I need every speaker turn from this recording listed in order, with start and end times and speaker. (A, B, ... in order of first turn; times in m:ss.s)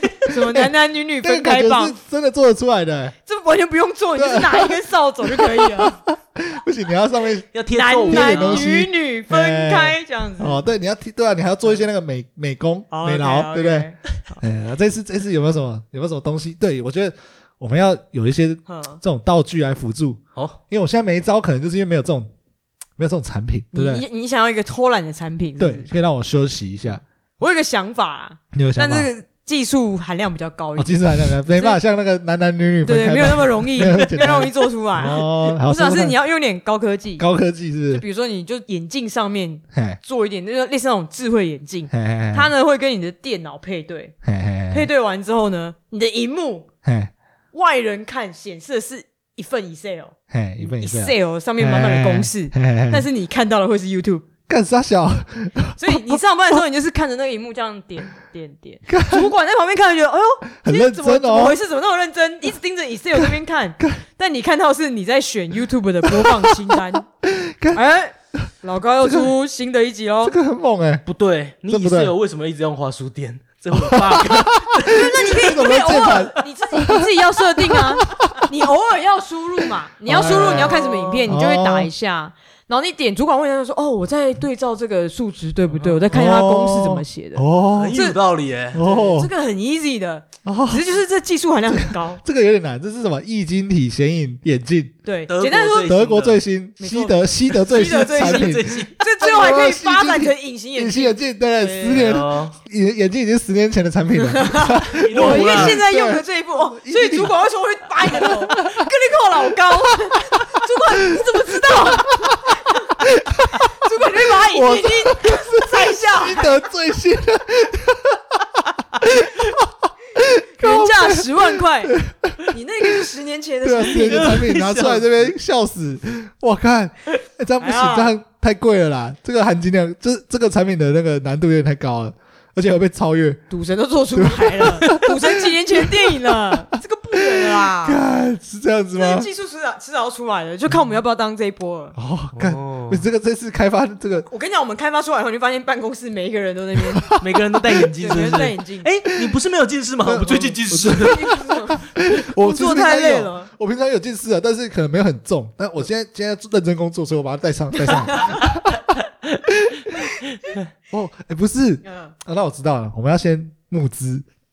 0:00.2-0:02.0 A
0:00.2-0:03.1 B
0:03.2-0:06.0 A
0:04.2-0:07.5 B
0:07.5-0:08.7 C
0:07.7-0:10.6 A
0:08.0-0:22.3 B
0:12.9-0:14.4 A
0:18.7-0:19.0 A
0:23.0-0:24.0 B
0:23.7-0:25.9 A
0:25.6-0:27.0 B
0:27.4-0:31.8 A
0:28.5-0:29.1 B
0:30.8-0:36.2 B
0:32.8-0:37.2 A
0:37.2-0:38.0 B
0:37.9-0:44.1 A
0:39.7-0:40.0 B
0:41.9-0:42.5 B
0:44.2-0:44.9 B
0:44.7-0:46.7 A
0:46.8-0:47.1 B
0:47.5-0:54.2 A
0:50.3-0:53.1 B
0:54.5-0:56.2 B
0:55.8-1:07.0 A
0:58.9-0:59.3 B
1:00.6-1:01.6 B
1:03.2-1:04.0 B
1:06.0-1:07.8 B
1:07.7-1:10.4 A
1:09.0-1:09.3 B
1:10.2-1:11.0 B
1:11.0-1:16.4 C
1:11.7-1:12.1 B
1:13.7-1:18.3 B
1:14.8-1:28.2 A
1:20.0-1:21.9 B
1:20.1-1:21.2 C
1:25.7-1:26.0 C
1:26.1-1:28.0 B
1:27.7-1:28.8 C
1:28.7-1:29.3 B
1:28.8-1:32.2 A
1:30.4-1:30.9 B
1:31.7-1:35.0 B
1:35.0-1:35.9 A
1:35.3-1:36.4 C
1:35.8-1:47.3 B
1:36.8-1:42.0 A
1:37.5-1:39.0 C
1:41.8-1:42.6 C
1:44.2-1:56.6 A
1:45.0-1:45.8 C
1:48.0-1:48.9 B
1:51.1-2:03.1 B
2:00.6-2:02.0 A
2:02.5-2:04.5 A
2:03.6-2:13.4 B
2:03.9-2:05.3 C
2:07.6-2:08.1 A
2:13.5-2:18.0 A
2:14.1-2:16.6 B
2:17.3-2:19.3 B
2:18.9-2:21.9 A
2:21.9-2:24.3 B
2:22.3-2:23.0 C
2:24.2-2:27.2 A
2:26.9-2:27.9 B
2:27.2-2:31.3 C
2:28.0-2:28.9 A
2:30.0-2:38.9 B
2:30.8-2:33.5 A
2:37.9-2:38.5 A
2:39.5-2:40.1 B
2:40.4-2:40.7 C
2:40.9-2:44.2 B
2:41.8-2:42.1 A